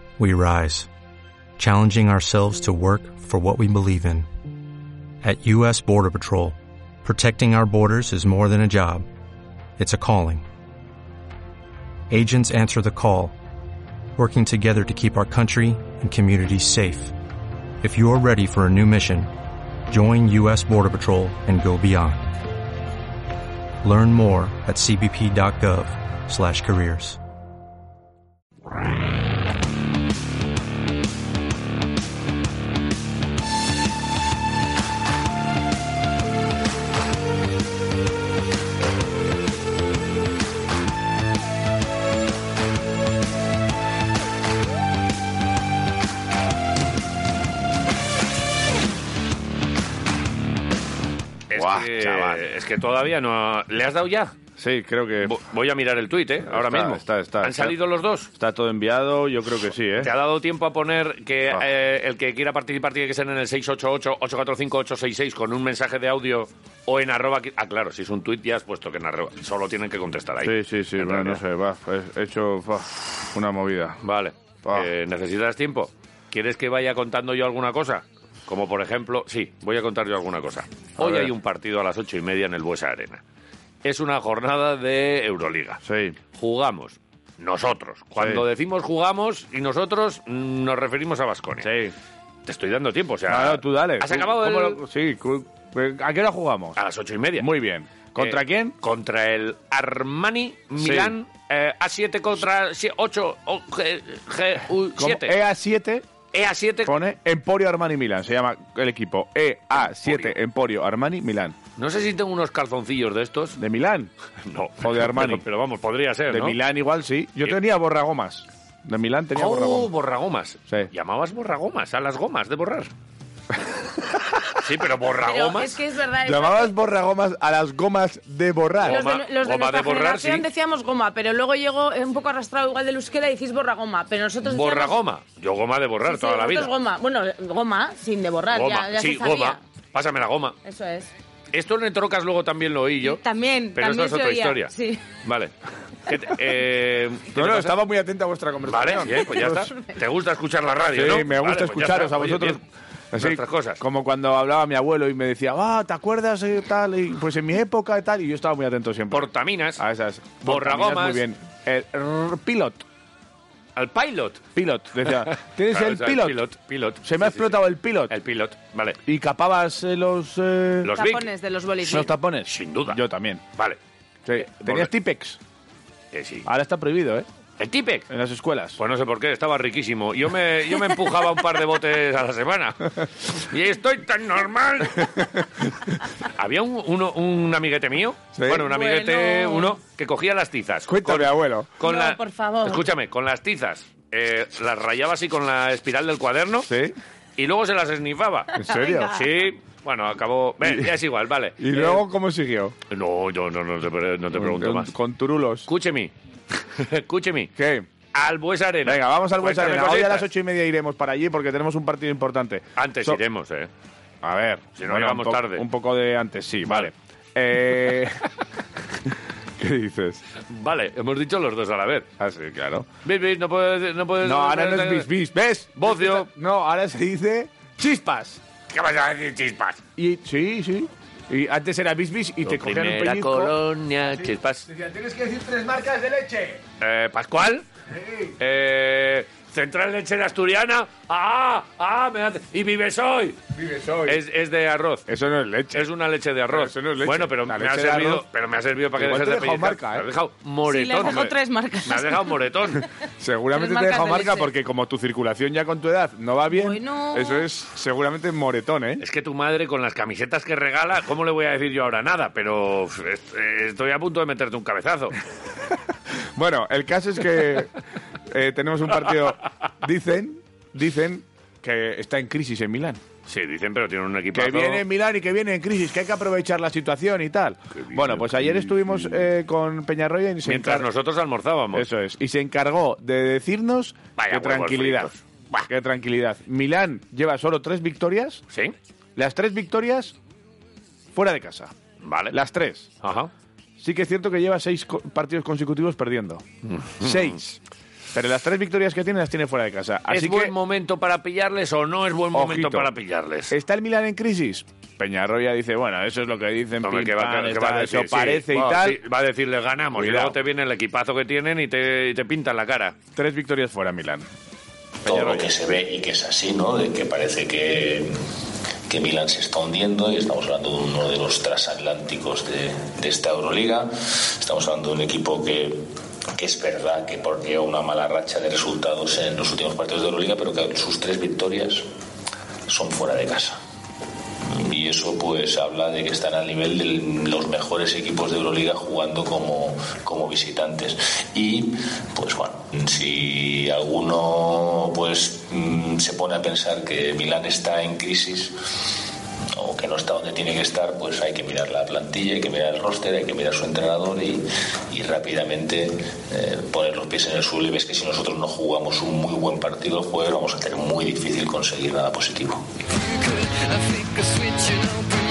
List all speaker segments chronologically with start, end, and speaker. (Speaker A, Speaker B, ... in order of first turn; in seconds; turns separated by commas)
Speaker A: 0.2-0.9, Speaker A: 1.6-4.2, Speaker A: 5.2-9.0, Speaker A: 9.8-10.4, Speaker A: 12.1-13.3, Speaker A: 14.2-17.1, Speaker A: 17.8-19.3, Speaker A: 19.9-22.3, Speaker A: 23.8-27.2, Speaker B: 51.5-54.4, Speaker C: 51.5-52.4, Speaker C: 54.6-55.4, Speaker B: 55.2-58.3, Speaker C: 56.4-57.8, Speaker C: 58.3-60.1, Speaker B: 60.0-71.4, Speaker C: 70.4-74.0, Speaker B: 74.0-83.2, Speaker C: 74.6-74.9, Speaker C: 81.0-81.3, Speaker B: 83.8-85.8, Speaker C: 85.8-86.2, Speaker B: 86.3-91.7, Speaker C: 88.2-88.4, Speaker C: 91.6-91.9, Speaker B: 92.5-94.8, Speaker C: 93.3-96.8, Speaker B: 96.8-97.5, Speaker C: 97.4-98.8, Speaker B: 98.2-105.3, Speaker C: 100.8-101.1, Speaker C: 105.0-106.1, Speaker B: 106.3-107.0, Speaker C: 106.8-111.5, Speaker B: 110.0-110.3, Speaker B: 111.8-113.6, Speaker C: 113.6-114.1, Speaker B: 114.4-116.6, Speaker C: 114.8-115.4, Speaker C: 116.3-119.9, Speaker B: 119.3-122.9, Speaker B: 124.6-125.7, Speaker D: 125.2-126.7, Speaker C: 126.2-129.0, Speaker B: 128.8-130.4, Speaker D: 128.9-135.0, Speaker B: 134.4-136.7, Speaker D: 136.0-139.6, Speaker B: 138.5-140.6, Speaker D: 140.6-141.1, Speaker B: 141.5-143.2, Speaker D: 143.0-145.0, Speaker B: 143.7-144.7, Speaker B: 145.2-145.5, Speaker B: 146.1-147.8, Speaker C: 147.3-149.7, Speaker B: 148.7-152.6, Speaker C: 150.9-152.6, Speaker C: 153.1-162.8, Speaker B: 153.2-153.8, Speaker B: 159.1-159.8, Speaker B: 160.4-161.2, Speaker B: 163.8-164.4, Speaker C: 164.5-166.5, Speaker B: 165.1-169.0, Speaker C: 167.0-168.1, Speaker C: 169.1-170.9, Speaker B: 170.8-171.3, Speaker D: 170.9-172.1, Speaker C: 171.8-173.4, Speaker B: 172.5-173.0, Speaker C: 174.2-175.4, Speaker B: 174.4-174.9, Speaker B: 176.1-176.5, Speaker C: 176.4-177.3, Speaker B: 177.6-178.1, Speaker C: 178.1-178.8, Speaker B: 178.8-185.3, Speaker C: 185.0-185.4, Speaker B: 186.2-196.7, Speaker C: 188.3-188.7, Speaker D: 188.6-189.7, Speaker C: 190.8-191.7, Speaker D: 191.8-192.9, Speaker C: 196.7-196.9, Speaker B: 197.4-202.0, Speaker C: 198.6-199.1, Speaker D: 198.6-199.2, Speaker C: 200.6-200.9, Speaker C: 201.6-202.7, Speaker B: 202.9-204.9, Speaker C: 204.3-205.7, Speaker B: 205.7-207.5, Speaker C: 207.6-207.9, Speaker B: 208.1-210.3, Speaker C: 208.8-213.2, Speaker B: 212.8-213.7, Speaker C: 214.2-218.3, Speaker B: 214.8-215.6, Speaker C: 219.1-220.2, Speaker B: 220.5-222.1, Speaker C: 222.2-222.9, Speaker B: 223.0-225.1, Speaker C: 224.2-228.4, Speaker B: 225.8-226.3, Speaker B: 228.7-229.8, Speaker C: 230.0-236.6, Speaker B: 232.4-234.7, Speaker B: 236.8-237.7, Speaker C: 237.9-238.3, Speaker B: 238.4-243.4, Speaker C: 243.5-244.2, Speaker B: 244.0-245.1, Speaker C: 245.1-245.9, Speaker B: 245.7-252.8, Speaker C: 246.5-248.2, Speaker C: 248.9-250.1, Speaker D: 250.7-252.3, Speaker C: 253.2-259.0, Speaker D: 253.5-254.5, Speaker D: 256.5-257.4, Speaker B: 259.0-265.1, Speaker C: 266.3-267.8, Speaker C: 268.3-273.0, Speaker B: 273.2-274.8, Speaker C: 274.3-280.9, Speaker B: 277.8-279.2, Speaker B: 280.4-281.9, Speaker C: 281.7-285.1, Speaker B: 284.2-285.7, Speaker C: 285.6-288.4, Speaker C: 289.1-290.1, Speaker C: 291.1-291.7, Speaker B: 292.0-292.4, Speaker C: 292.3-292.9, Speaker B: 293.0-293.3, Speaker C: 293.8-296.4, Speaker B: 296.6-297.4, Speaker C: 297.0-297.6, Speaker C: 298.1-300.5, Speaker B: 300.1-303.5, Speaker C: 302.3-302.9, Speaker C: 303.5-309.0, Speaker B: 306.8-312.9, Speaker C: 309.9-310.4, Speaker C: 313.1-314.3, Speaker C: 315.0-315.5, Speaker E: 315.0-318.1, Speaker E: 318.9-325.8, Speaker E: 326.4-331.8, Speaker E: 332.7-333.6, Speaker E: 334.4-348.5, Speaker E: 349.5-362.6